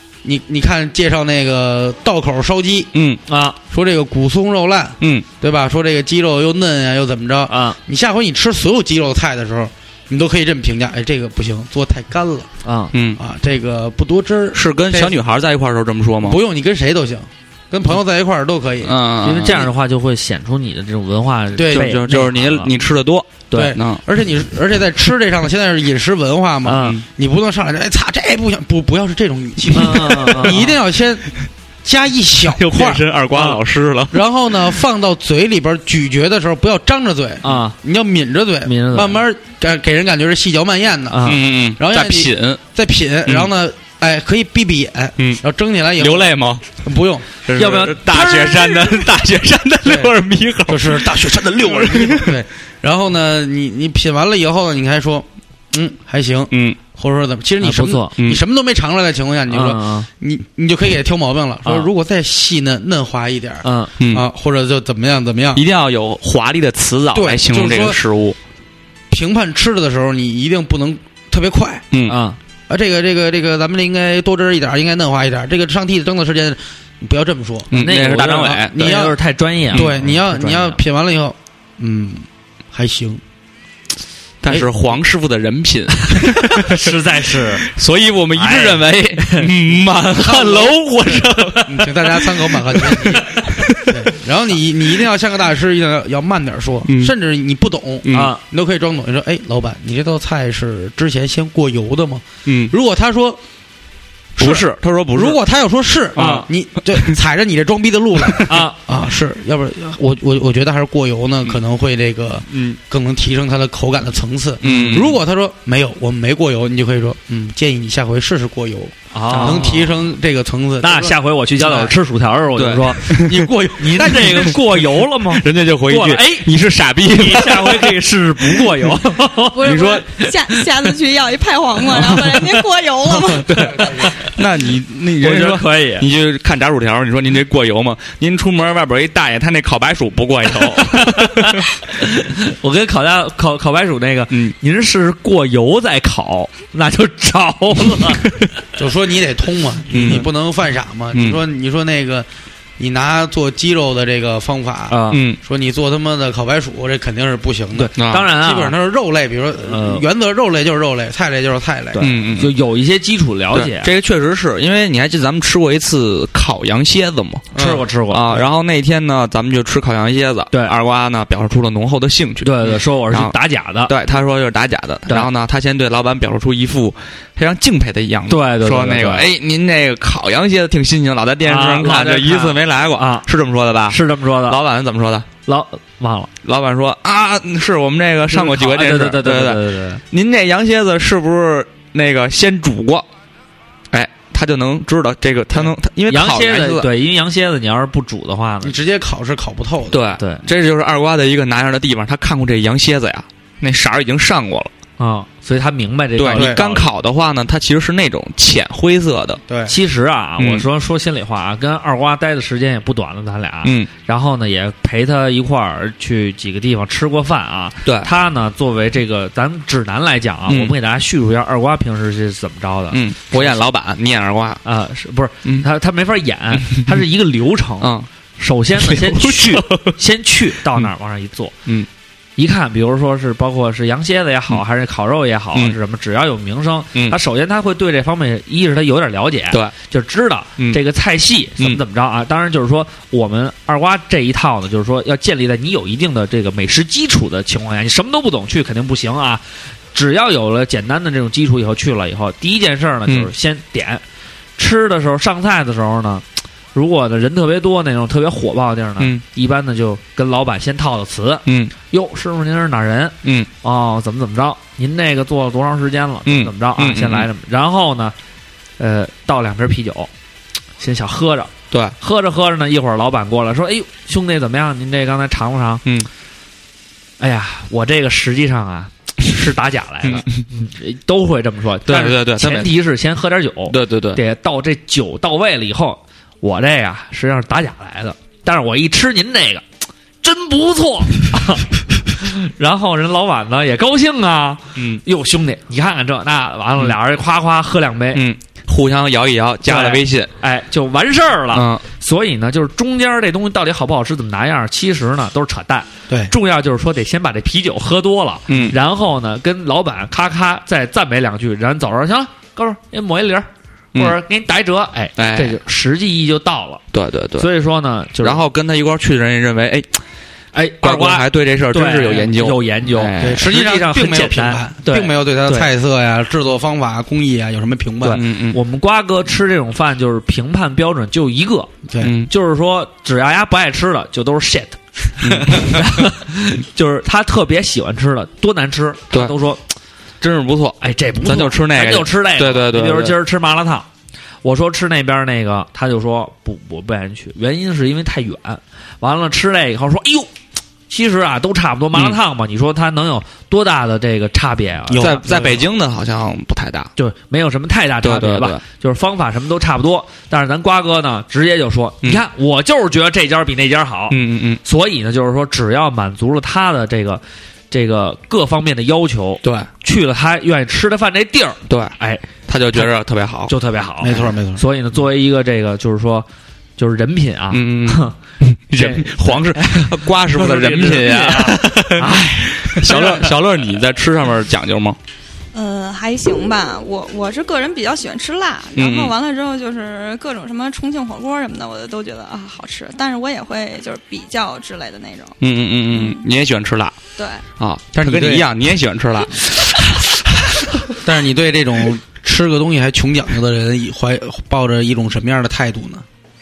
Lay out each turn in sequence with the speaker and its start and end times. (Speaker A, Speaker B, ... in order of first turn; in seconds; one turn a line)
Speaker A: 0.2-2.9
Speaker B: 2.9-3.2
Speaker C: 3.3-3.6
Speaker A: 3.7-12.5
Speaker B: 5.0-5.3
Speaker C: 7.5-7.8
Speaker C: 12.6-12.9
Speaker B: 12.9-13.2
Speaker A: 13.2-15.2
Speaker B: 14.5-16.4
Speaker A: 16.2-19.0
Speaker B: 18.8-19.7
Speaker C: 19.2-22.7
Speaker A: 21.6-22.0
Speaker B: 21.6-24.0
Speaker C: 23.5-23.8
Speaker A: 23.5-31.3
Speaker C: 26.6-27.0
Speaker B: 26.8-27.0
Speaker C: 29.7-30.7
Speaker B: 30.3-30.7
Speaker A: 31.8-33.5
Speaker B: 32.5-34.2
Speaker A: 34.1-47.3
Speaker C: 37.4-37.8
Speaker C: 38.6-39.2
Speaker C: 41.1-41.4
Speaker B: 41.2-42.6
Speaker B: 46.0-46.6
Speaker B: 47.5-52.4
Speaker C: 47.5-49.1
Speaker A: 49.8-50.1
Speaker A: 50.7-65.6
Speaker B: 56.5-56.8
Speaker C: 57.6-58.1
Speaker C: 59.5-60.1
Speaker C: 63.6-63.9
Speaker B: 64.0-64.2
Speaker B: 65.5-68.4
Speaker A: 67.1-68.0
Speaker A: 69.1-71.9
Speaker B: 71.9-72.2
Speaker C: 72.0-72.4
Speaker A: 72.7-79.2
Speaker B: 77.7-79.0
Speaker C: 77.7-80.8
Speaker A: 79.7-83.2
Speaker B: 84.4-86.9
Speaker C: 86.4-87.7
Speaker B: 87.7-94.0
Speaker C: 88.3-89.5
Speaker A: 90.2-90.8
Speaker C: 90.2-91.7
Speaker A: 91.7-103.4
Speaker B: 96.9-97.1
Speaker B: 98.1-98.3
Speaker C: 98.1-98.4
Speaker B: 102.5-102.7
Speaker A: 104.4-121.9
Speaker B: 104.4-105.4
Speaker C: 106.2-106.5
Speaker B: 106.2-107.1
Speaker C: 108.5-108.8
Speaker B: 112.5-112.8
Speaker B: 114.6-115.2
Speaker C: 114.7-114.9
Speaker C: 119.1-119.8
Speaker B: 119.3-119.8
Speaker C: 120.8-123.2
Speaker B: 122.6-124.5
Speaker A: 123.1-124.5
Speaker C: 123.8-126.5
Speaker B: 125.3-128.0
Speaker C: 127.0-130.7
Speaker D: 129.5-133.6
Speaker B: 129.6-130.0
Speaker C: 132.0-132.5
Speaker B: 133.3-141.7
Speaker A: 133.5-134.2
Speaker C: 133.8-134.3
Speaker C: 135.2-136.1
Speaker C: 140.7-148.4
Speaker A: 148.8-152.3
Speaker B: 149.9-150.3
Speaker B: 151.1-151.4
Speaker A: 152.8-162.2
Speaker C: 154.9-155.2
Speaker B: 155.1-155.4
Speaker C: 157.8-158.8
Speaker B: 158.0-158.3
Speaker C: 159.6-160.1
Speaker C: 161.9-163.9
Speaker B: 162.0-162.5
Speaker B: 163.5-167.5
Speaker A: 167.5-167.9
Speaker C: 167.6-168.4
Speaker B: 168.1-185.3
Speaker C: 172.4-173.9
Speaker C: 178.3-179.3
Speaker C: 181.4-183.3
Speaker C: 183.9-184.6
Speaker C: 185.5-186.3
Speaker B: 186.4-193.1
Speaker C: 188.3-190.0
Speaker B: 193.9-196.9
Speaker C: 195.6-198.8
Speaker A: 198.6-200.1
Speaker B: 199.9-204.7
Speaker C: 200.2-200.5
Speaker C: 205.0-206.9
Speaker B: 206.2-209.4
Speaker A: 206.3-206.6
Speaker A: 209.5-209.7
Speaker C: 209.7-223.6
Speaker B: 210.4-210.7
Speaker B: 213.6-213.9
Speaker B: 217.8-218.1
Speaker B: 220.5-220.7
Speaker B: 222.9-224.6
Speaker C: 224.6-231.6
Speaker B: 227.8-228.1
Speaker B: 228.8-229.9
Speaker C: 232.4-249.4
Speaker C: 249.9-254.0
Speaker C: 254.6-268.1
Speaker B: 261.5-261.7
Speaker B: 263.2-263.5
Speaker B: 266.3-267.3
Speaker C: 268.8-270.1
Speaker C: 270.8-275.8
Speaker C: 277.2-289.6
Speaker B: 281.9-282.8
Speaker B: 283.7-284.2
Speaker C: 290.2-298.2
Speaker B: 294.8-295.0
Speaker B: 298.1-300.3
Speaker C: 299.6-316.8
Speaker B: 301.5-301.8
Speaker B: 308.5-308.8
Speaker B: 315.2-315.6
Speaker B: 316.9-317.5
Speaker C: 317.4-318.4
Speaker B: 318.2-319.9
Speaker C: 320.5-325.7
Speaker B: 320.8-323.5
Speaker A: 323.2-328.2
Speaker C: 328.0-339.6
Speaker B: 328.1-328.6
Speaker A: 331.9-332.1
Speaker B: 332.0-332.3
Speaker B: 335.2-336.1
Speaker B: 340.2-343.2
Speaker C: 340.8-343.9
Speaker C: 344.4-350.3
Speaker C: 350.9-355.6
Speaker A: 354.9-355.6
Speaker B: 355.0-356.9
Speaker C: 357.0-372.9
Speaker B: 358.0-358.6
Speaker B: 364.1-364.6
Speaker B: 369.4-369.7
Speaker B: 371.7-371.9
Speaker B: 372.5-373.5
Speaker C: 373.5-378.1
Speaker A: 374.0-374.6
Speaker B: 377.5-385.0
Speaker C: 378.8-383.4
Speaker D: 385.5-395.4
Speaker B: 388.8-389.1
Speaker B: 395.4-397.0
Speaker D: 395.9-396.2
Speaker D: 397.2-397.4
Speaker B: 397.6-400.6
Speaker A: 397.9-398.5
Speaker A: 401.0-406.1